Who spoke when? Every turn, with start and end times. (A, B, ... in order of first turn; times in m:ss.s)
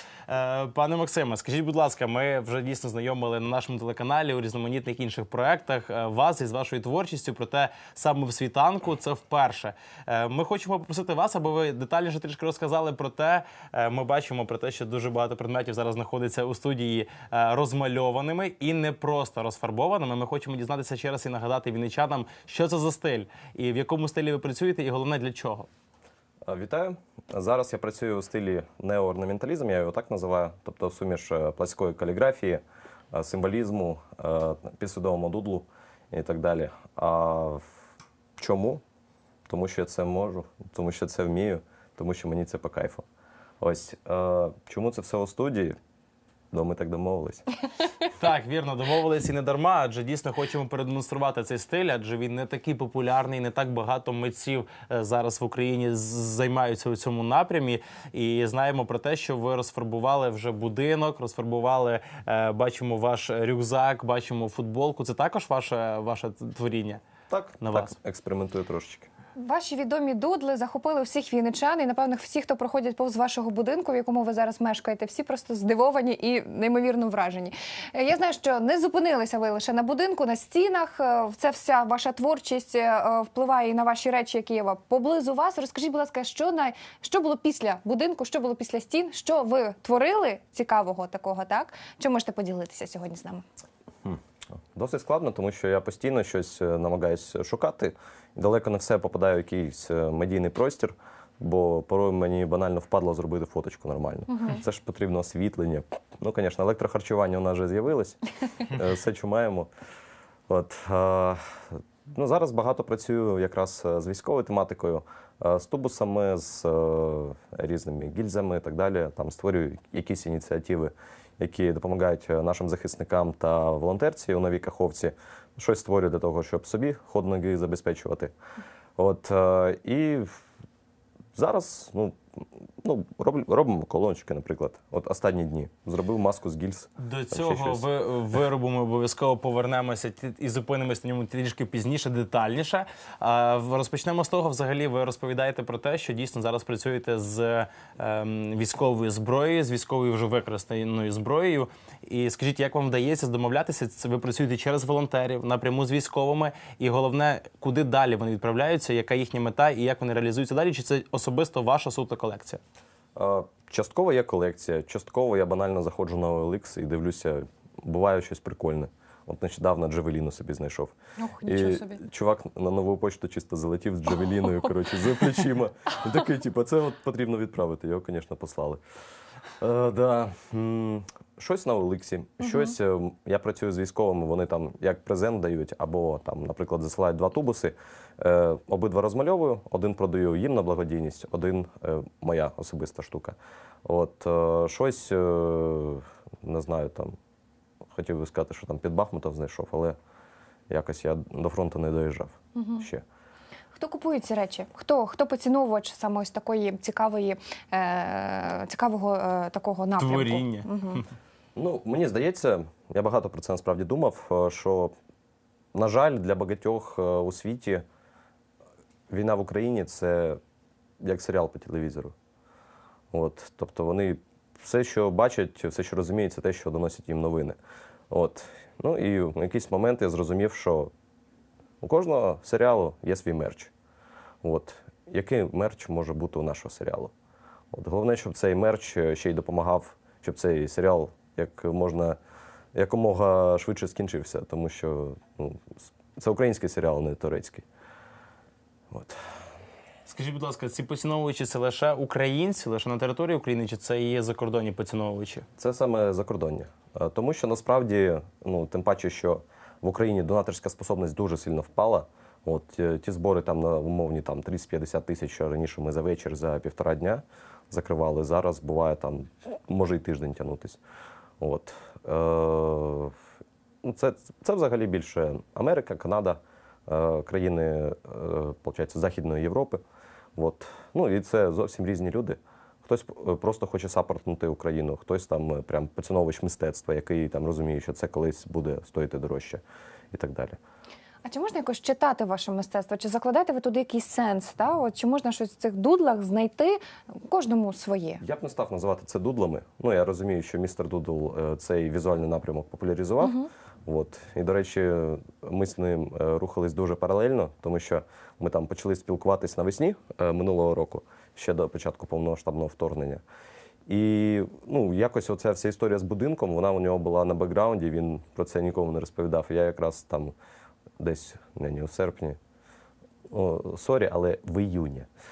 0:00.3-0:25.7 A
0:26.5-0:37.6 B
0:38.4-0:38.8 B
0:39.5-0:43.0 B
0:43.6-0:45.8 B
0:46.5-0:47.5 B
0:48.1-1:07.0 A
1:07.3-1:09.1 B
1:07.6-1:08.0 A
1:09.4-1:33.4 C
1:34.8-1:49.7 B
1:50.5-2:08.3 B
2:09.0-2:10.4 B
2:11.4-2:12.2 B
2:12.8-2:17.8 B
2:17.0-2:42.6 A
2:43.2-2:50.9 B
2:51.2-2:52.0 C
2:51.4-2:58.8 B
2:59.6-3:17.2 B
3:02.4-3:02.7 C
3:17.9-3:20.0 B
3:20.7-3:23.0 B
3:22.6-3:22.9 C
3:23.7-3:31.0 C
3:30.0-3:31.1 A
3:31.6-3:34.9 B
3:35.7-3:37.8 B
3:39.1-3:40.4 B
3:41.0-3:42.1 B
3:43.1-3:47.6 B
3:48.1-3:50.9 B
3:51.8-3:53.7 B
3:54.4-3:57.1 B
3:57.7-4:02.2 B
4:02.8-4:07.6 B
4:08.9-4:09.2 B
4:10.1-4:15.4 A
4:15.6-4:30.8 B
4:31.4-4:33.1 B
4:33.8-4:39.8 B
4:40.4-4:50.6 B
4:51.2-4:58.2 C
4:58.2-5:13.2 B
5:03.2-5:03.5 C
5:13.9-5:20.3 B
5:21.0-5:22.4 B
5:23.3-5:25.1 B